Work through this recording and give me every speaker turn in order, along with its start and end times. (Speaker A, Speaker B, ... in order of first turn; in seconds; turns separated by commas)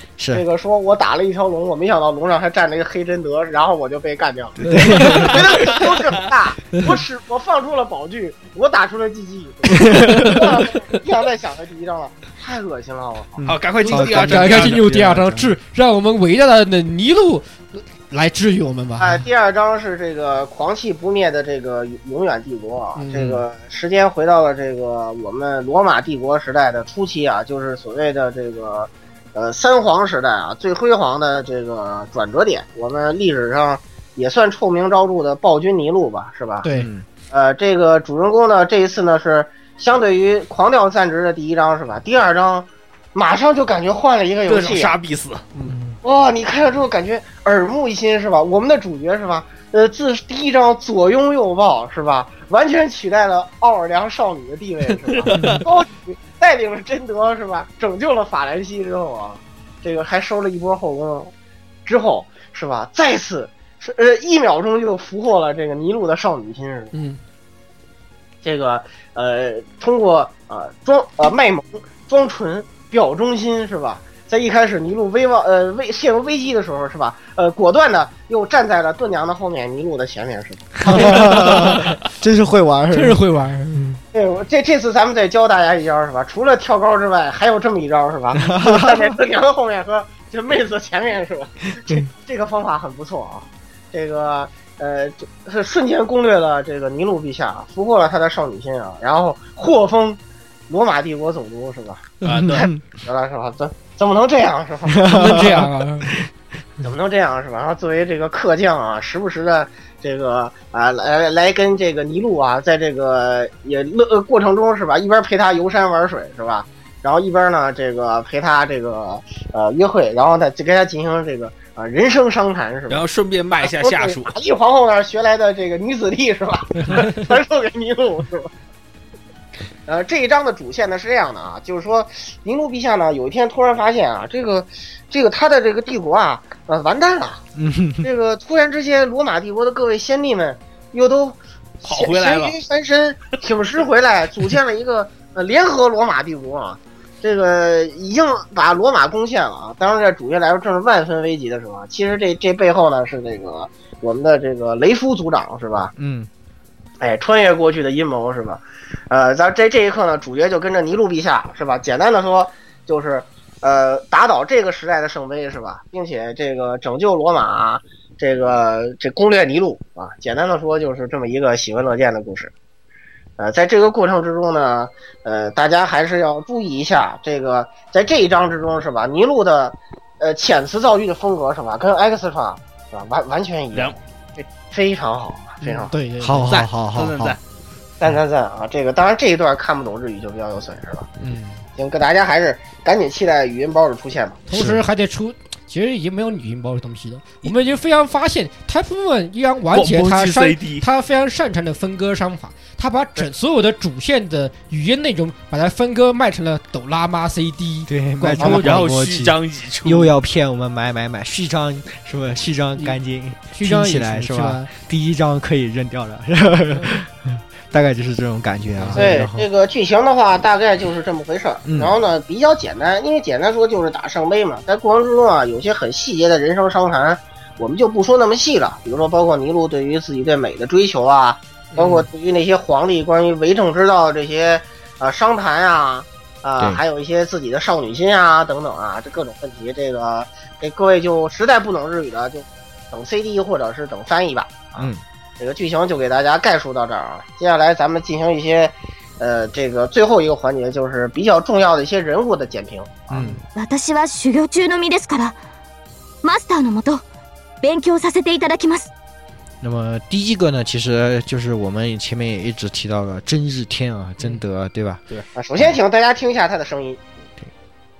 Speaker A: 0.2-0.4, Speaker B: 0.3-13.4, Speaker A: 4.6-5.6, Speaker C: 4.6-5.3, Speaker D: 5.1-5.7, Speaker A: 9.7-10.5, Speaker D: 13.4-14.8, Speaker A: 13.4-15.6, Speaker C: 13.8-19.2, Speaker B: 19.0-36.7, Speaker C: 22.9-23.3, Speaker C: 36.6-36.9, Speaker A: 36.7-37.0, Speaker B: 37.3-44.9, Speaker D: 44.5-45.4, Speaker A: 45.6-46.0, Speaker B: 46.0-61.3, Speaker D: 55.1-55.6, Speaker A: 55.3-55.6, Speaker B: 61.9-66.9, Speaker C: 66.9-67.2, Speaker B: 68.4-81.5, Speaker A: 80.8-83.2, Speaker C: 80.8-81.8, Speaker C: 82.9-83.9, Speaker B: 84.1-105.5, Speaker A: 88.3-89.2, Speaker D: 102.2-102.7, Speaker A: 102.3-102.8, Speaker A: 104.9-106.2, Speaker C: 105.1-106.1, Speaker B: 106.8-123.0, Speaker D: 122.9-124.3, Speaker B: 123.6-128.5, Speaker B: 129.8-137.4, Speaker A: 137.5-138.1, Speaker B: 138.0-155.9, Speaker D: 141.8-142.6, Speaker A: 156.0-156.3, Speaker B: 157.0-172.5, Speaker B: 173.4-185.9, Speaker C: 185.6-186.5, Speaker A: 186.2-187.4, Speaker D: 186.5-187.4, Speaker B: 188.0-191.1, Speaker A: 191.2-191.6, Speaker B: 191.8-194.5, Speaker C: 194.5-208.8, Speaker A: 194.5-194.8, Speaker D: 199.7-200.8, Speaker A: 207.9-219.5, Speaker D: 208.4-210.1, Speaker C: 213.5-214.7, Speaker C: 218.8-219.1, Speaker B: 218.9-253.3, Speaker A: 221.6-221.9, Speaker C: 231.8-232.0, Speaker A: 244.8-245.0, Speaker A: 253.1-253.4, Speaker E: 253.5-255.4, Speaker E: 256.2-257.0, Speaker E: 257.6-258.9, Speaker A: 259.6-265.0, Speaker B: 265.3-267.0